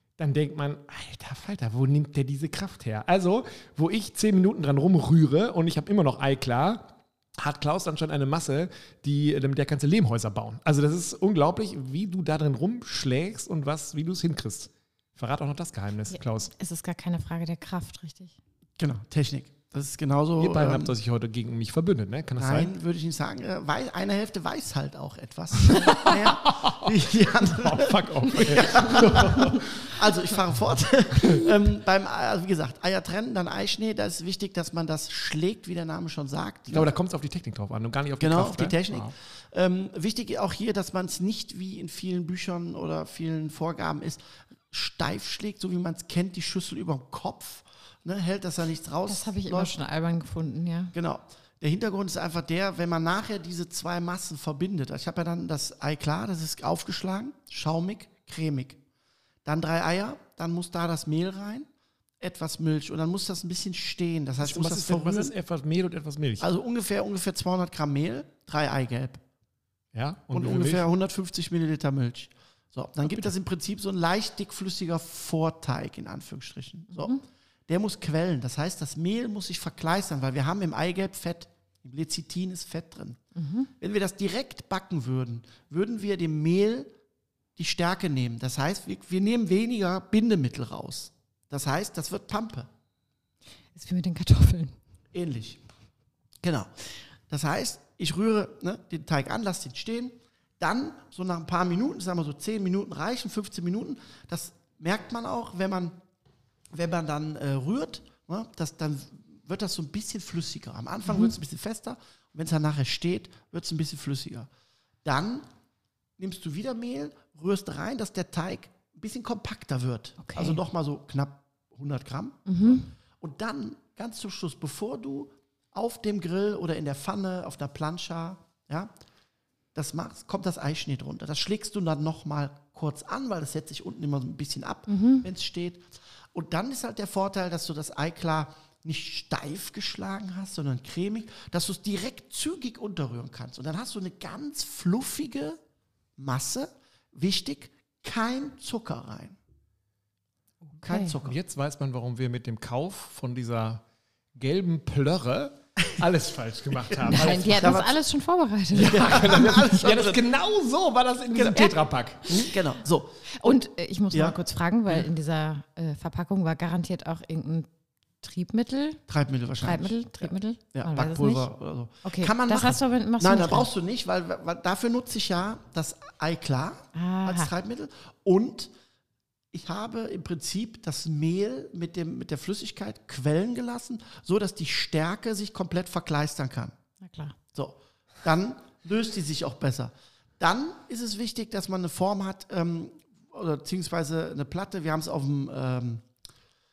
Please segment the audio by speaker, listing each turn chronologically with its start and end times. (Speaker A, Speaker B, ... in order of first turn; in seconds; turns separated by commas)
Speaker A: 0.2-16.5, Speaker B: 16.1-18.4, Speaker C: 18.8-20.9, Speaker A: 20.4-22.7, Speaker C: 22.4-36.9, Speaker A: 25.7-30.0, Speaker A: 31.2-31.5, Speaker A: 36.7-39.1, Speaker C: 38.2-49.8, Speaker B: 49.1-51.0, Speaker C: 50.9-58.8, Speaker C: 59.5-61.7, Speaker C: 62.2-65.3, Speaker A: 64.4-66.5, Speaker C: 66.4-69.2, Speaker A: 69.9-70.9, Speaker C: 70.3-83.2, Speaker B: 83.3-83.7, Speaker C: 83.8-86.9, Speaker C: 87.6-92.7, Speaker B: 93.8-94.8, Speaker C: 95.1-95.6, Speaker C: 96.4-96.7, Speaker C: 97.3-106.0, Speaker C: 106.7-114.5, Speaker C: 115.0-115.4, Speaker C: 116.2-128.9, Speaker B: 120.2-120.6, Speaker B: 122.5-122.9, Speaker C: 129.8-145.6, Speaker B: 134.9-135.3, Speaker C: 146.2-149.4, Speaker B: 150.8-151.2, Speaker C: 150.8-151.4, Speaker A: 151.2-153.8, Speaker A: 154.4-157.9, Speaker C: 156.9-157.9, Speaker B: 157.0-159.6, Speaker C: 158.7-160.2, Speaker A: 158.7-162.4, Speaker C: 161.3-161.7, Speaker B: 161.5-162.5, Speaker C: 162.3-163.6, Speaker B: 163.3-167.7, Speaker C: 164.1-164.4, Speaker B: 168.2-169.0, Speaker C: 169.1-178.7, Speaker B: 169.6-171.5, Speaker B: 172.0-173.7, Speaker B: 176.9-177.5, Speaker C: 179.5-186.7, Speaker B: 187.0-187.4, Speaker C: 187.5-196.1